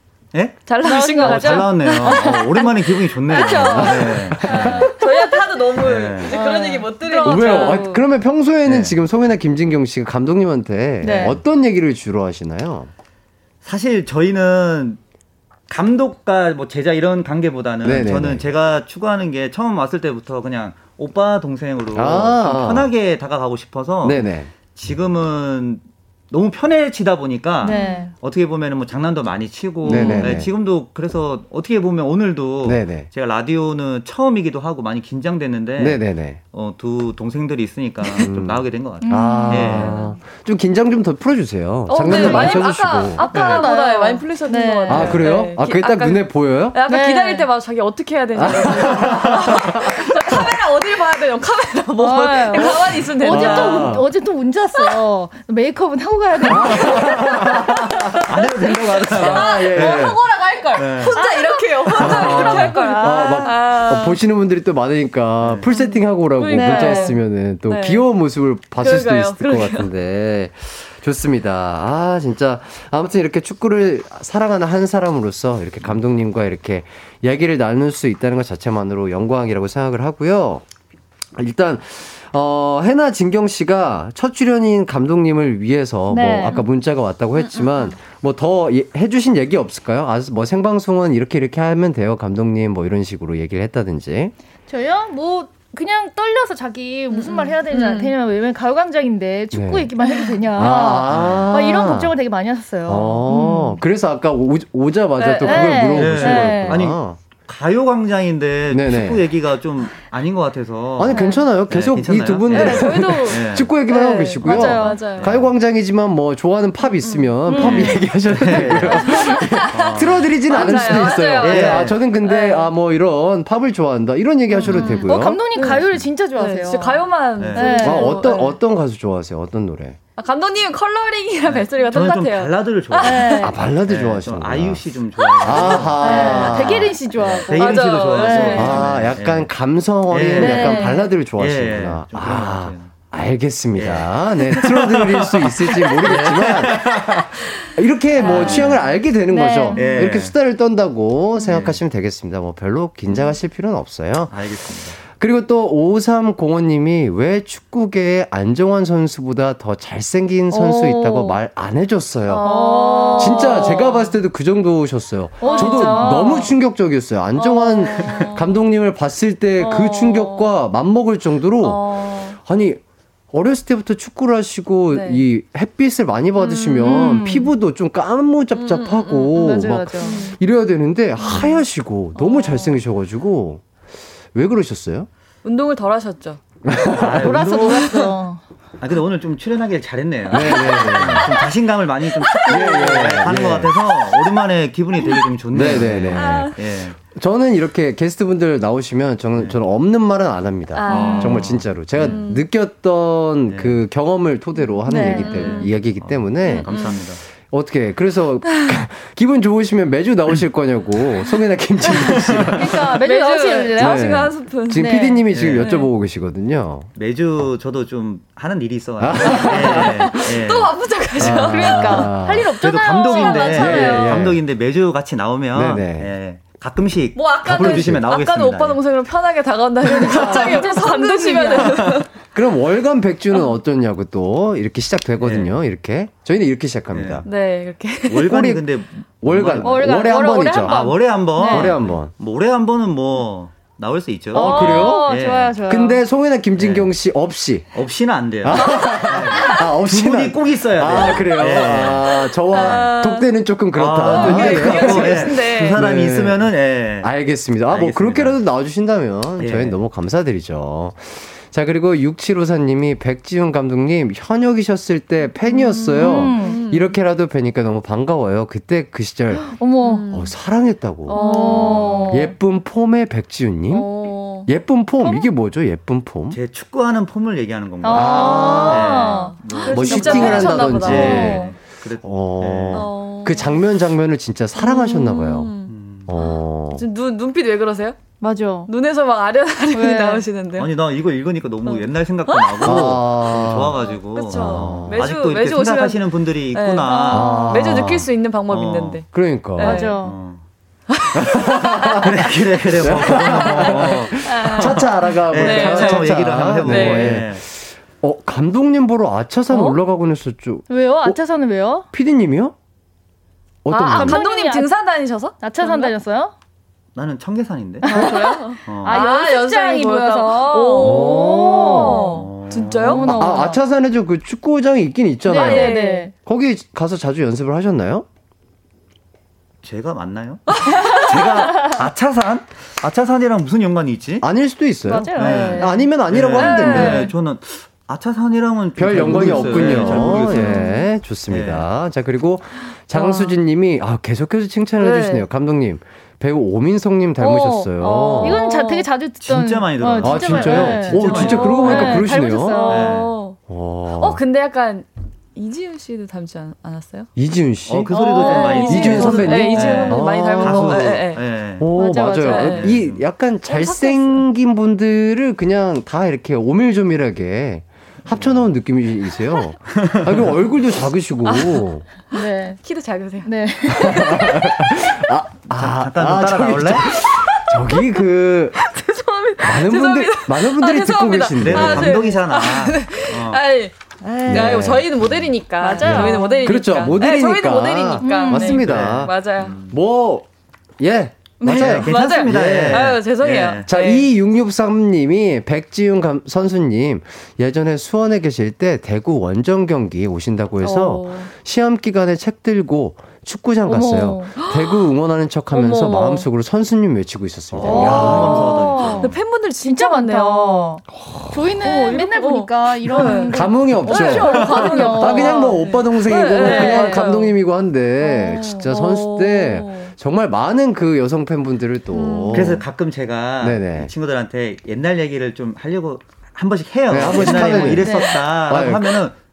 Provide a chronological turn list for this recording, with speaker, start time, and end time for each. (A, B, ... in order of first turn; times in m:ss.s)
0:00.3-0:04.9 A
0:00.6-0:08.0 B
0:00.8-0:05.4 C
0:03.6-0:04.9 D
0:05.8-0:06.4 A
0:06.2-0:08.0 C
0:07.2-0:12.9 D
0:08.6-0:09.0 A
0:11.0-0:11.4 C
0:13.6-0:15.0 A
0:15.7-0:36.0 A
0:17.8-0:18.4 D
0:21.9-0:22.9 D
0:24.0-0:24.5 D
0:27.6-0:28.1 C
0:27.6-0:28.0 B
0:29.8-0:30.4 C
0:29.8-0:30.5 D
0:29.9-0:30.2 B
0:32.6-0:33.1 D
0:35.8-0:36.4 D
0:36.5-0:39.9 A
0:38.2-0:43.2 D
0:39.0-0:40.0 C
0:39.6-0:40.1 B
0:41.9-0:54.0 B
0:42.1-0:42.6 C
0:43.2-0:45.2 C
0:43.3-0:43.7 A
0:44.9-0:46.8 D
0:44.9-0:45.3 A
0:46.9-0:47.5 C
0:48.4-0:49.8 D
0:52.0-0:58.0 C
0:52.6-0:54.0 D
0:56.5-0:58.1 D
0:56.5-0:57.4 A
0:58.3-1:00.2 A
0:58.6-1:04.2 B
0:59.1-1:00.2 D
1:00.7-1:01.2 A
1:01.1-1:03.5 C
1:01.9-1:02.7 A
1:02.1-1:20.6 D
1:05.4-1:05.7 A
1:05.7-1:08.0 B
1:06.5-1:07.2 C
1:08.8-1:09.9 B
1:21.4-1:34.3 D
1:26.1-1:26.6 C
1:27.4-1:27.9 B
1:34.7-1:43.6 C
1:37.1-1:38.1 B
1:39.5-1:39.9 D
1:40.0-1:40.5 B
1:40.5-1:42.2 D
1:41.0-1:41.5 A
1:42.8-1:47.2 D
1:43.3-1:43.7 B
1:45.2-1:46.0 B
1:45.4-1:46.9 C
1:45.9-1:53.7 A
1:48.7-1:49.3 D
1:51.0-2:05.4 D
1:51.1-1:51.5 C
1:52.5-1:55.4 B
1:54.4-1:55.2 C
1:55.1-1:55.4 A
1:57.0-1:57.9 B
1:57.5-1:58.1 C
1:57.6-2:02.0 A
1:58.7-2:02.7 B
2:04.6-2:08.6 B
2:04.7-2:05.0 A
2:04.9-2:08.4 C
2:07.4-2:07.8 A
2:07.8-2:10.0 D
2:10.2-2:13.5 B
2:11.5-2:16.6 A
2:13.0-2:13.5 C
2:13.4-2:14.8 D
2:15.2-2:16.7 B
2:15.4-2:16.9 D
2:16.0-2:18.8 C
2:17.2-2:19.5 A
2:17.5-2:19.1 B
2:18.6-2:42.5 D
2:20.1-2:22.9 A
2:20.4-2:21.1 C
2:23.7-2:27.2 A
2:28.2-2:28.8 A
2:28.2-2:28.9 B
2:29.3-2:30.1 C
2:29.7-2:30.3 A
2:31.4-2:31.8 A
2:34.3-2:35.0 A
2:40.5-2:41.4 C
2:42.3-2:44.1 B
2:42.4-2:43.8 C
2:43.2-2:51.8 D
2:45.4-2:46.5 C
2:45.4-2:46.5 B
2:47.4-2:48.5 B
2:48.0-2:48.3 A
2:49.6-2:50.5 B
2:51.6-2:52.4 B
2:52.4-2:52.8 D
2:53.3-3:03.6 D
2:54.9-2:55.2 B
2:56.4-2:57.2 B
2:56.8-2:57.5 C
2:58.5-3:00.4 B
2:59.4-3:00.3 C
3:01.2-3:01.6 B
3:02.1-3:02.8 B
3:04.3-3:05.1 D
3:05.4-3:06.4 B
3:06.6-3:08.1 D
3:07.0-3:07.8 A
3:07.2-3:08.4 C
3:07.6-3:08.1 B
3:08.8-3:17.0 A
3:10.3-3:11.3 D
3:10.3-3:11.5 B
3:12.2-3:13.0 B
3:12.4-3:13.8 D
3:14.2-3:14.4 B
3:15.5-3:26.7 D
3:16.1-3:16.6 B
3:20.7-3:22.5 B
3:20.9-3:22.2 A
3:23.5-3:23.8 A
3:24.9-3:25.5 C
3:24.9-3:25.7 B
3:25.2-3:27.2 A
3:26.4-3:27.0 B
3:27.3-3:33.0 D
3:31.9-3:32.6 A
3:32.6-3:34.1 C
3:33.0-3:35.9 B
3:33.8-3:36.9 D
3:34.7-3:35.2 C
3:35.3-3:35.7 A
3:36.9-3:41.5 A
3:39.0-3:40.2 D
3:39.2-3:42.1 B
3:41.2-3:42.5 D
3:41.5-3:44.1 C
3:42.6-3:48.8 A
3:42.8-3:44.3 B
3:43.6-3:44.4 D
3:45.5-3:46.1 D
3:47.1-3:52.1 B
3:47.4-3:48.0 D
3:49.8-3:51.9 C
3:51.5-3:52.0 A
3:52.3-3:57.2 D
3:55.2-3:55.5 A
3:56.9-3:57.2 A
3:57.2-3:58.3 B
3:58.1-4:00.0 A
3:58.1-3:58.6 D
3:59.2-4:02.1 D
3:59.6-4:01.6 B
4:00.5-4:05.6 A
4:01.4-4:01.8 C
4:04.3-4:05.1 D
4:04.3-4:06.0 C
4:04.5-4:04.9 B
4:05.7-4:07.7 D
4:06.6-4:06.9 A
4:07.7-4:12.9 A
4:08.4-4:29.4 D
4:08.5-4:09.6 B
4:12.5-4:13.3 B
4:13.7-4:17.1 A
4:14.0-4:15.8 B
4:17.7-4:18.4 A
4:19.4-4:19.8 A
4:25.4-4:27.0 B
4:26.0-4:26.6 C
4:29.5-4:30.0 C
4:29.8-4:30.3 B
4:30.1-4:31.2 D
4:31.0-4:32.3 B
4:31.1-4:32.3 C
4:32.0-4:33.9 D
4:33.7-4:34.5 B
4:34.4-4:36.4 D
4:36.3-4:42.9 A
4:37.8-4:40.5 C
4:37.9-4:39.0 D
4:38.3-4:41.6 B
4:39.6-4:41.5 D
4:42.0-4:45.5 D
4:42.7-4:43.6 B
4:44.6-4:48.0 B
4:45.7-4:46.2 A
4:46.0-4:46.8 D
4:48.2-4:48.7 C
4:48.7-4:50.8 B
4:49.7-4:50.3 C
4:50.6-4:57.4 A
4:51.6-4:53.0 B
4:52.6-4:53.8 D
4:53.7-5:00.0 B
4:54.4-4:55.1 D
4:57.1-4:58.1 D
4:58.5-4:59.0 A
4:59.1-4:59.8 D
4:59.6-5:00.2 C
5:00.0-5:00.4 A
5:01.2-5:11.2 D
5:02.0-5:07.4 A
5:03.0-5:07.2 B
5:10.7-5:11.9 C
5:11.9-5:12.5 D
5:13.6-5:14.2 D
5:13.7-5:15.9 B
5:13.8-5:14.7 C
5:15.4-5:16.3 C
5:16.9-5:18.1 A
5:17.8-5:23.6 C
5:17.8-5:23.5 B
5:18.6-5:19.0 A
5:20.8-5:21.9 D
5:22.1-5:23.0 A
5:22.9-5:28.0 D
5:25.2-5:26.1 C
5:25.3-5:26.1 B
5:29.6-5:34.3 A
5:30.5-5:31.8 B
5:34.2-5:37.1 D
5:34.8-5:35.8 C
5:35.2-5:37.1 B
5:35.2-5:40.6 A
5:38.8-5:48.4 D
5:39.1-5:40.8 B
5:40.0-5:40.8 C
5:41.3-5:41.7 A
5:42.9-5:43.4 B
5:44.8-5:45.2 B
5:47.2-5:53.0 C
5:47.8-5:48.9 B
5:49.2-5:51.9 A
5:50.0-5:52.7 D
5:50.5-5:53.4 B
5:52.6-5:53.1 A
5:53.5-5:54.2 D
5:54.0-5:57.1 B
5:57.2-5:57.9 D
5:57.7-6:01.7 A
5:57.9-6:01.2 B
5:58.2-5:58.6 C
5:58.6-6:01.1 D
6:01.6-6:11.8 D
6:01.7-6:02.5 C
6:02.0-6:02.8 B
6:02.4-6:03.0 A
6:03.5-6:04.2 B
6:08.0-6:08.5 A
6:09.7-6:10.3 A
6:11.2-6:14.7 B
6:12.1-6:12.6 C
6:13.2-6:14.3 C
6:13.7-6:18.6 D
6:15.4-6:16.9 A
6:16.9-6:29.6 B
6:19.4-6:22.1 D
6:21.4-6:23.4 A
6:24.0-6:24.5 C
6:24.3-6:24.9 D
6:25.6-6:26.7 C
6:25.8-6:29.1 D
6:28.0-6:28.6 C
6:28.6-6:29.8 A
6:29.7-6:30.3 D
6:30.8-6:33.0 D
6:31.4-6:34.1 B
6:31.4-6:33.7 A
6:33.6-6:48.6 D
6:40.6-6:41.3 B
6:43.7-6:44.3 C
6:44.4-6:44.9 B
6:45.5-6:46.2 B
6:47.5-6:49.1 A
6:47.6-6:50.8 B
6:47.6-6:57.0 C
6:50.9-6:51.6 D
6:51.6-6:57.4 B
6:53.3-7:02.6 D
6:54.2-6:54.8 A
6:58.0-6:59.9 B
7:01.9-7:02.6 B
7:02.3-7:09.2 A
7:03.4-7:03.9 D
7:06.9-7:09.0 D
7:07.2-7:08.3 C
7:07.2-7:08.1 B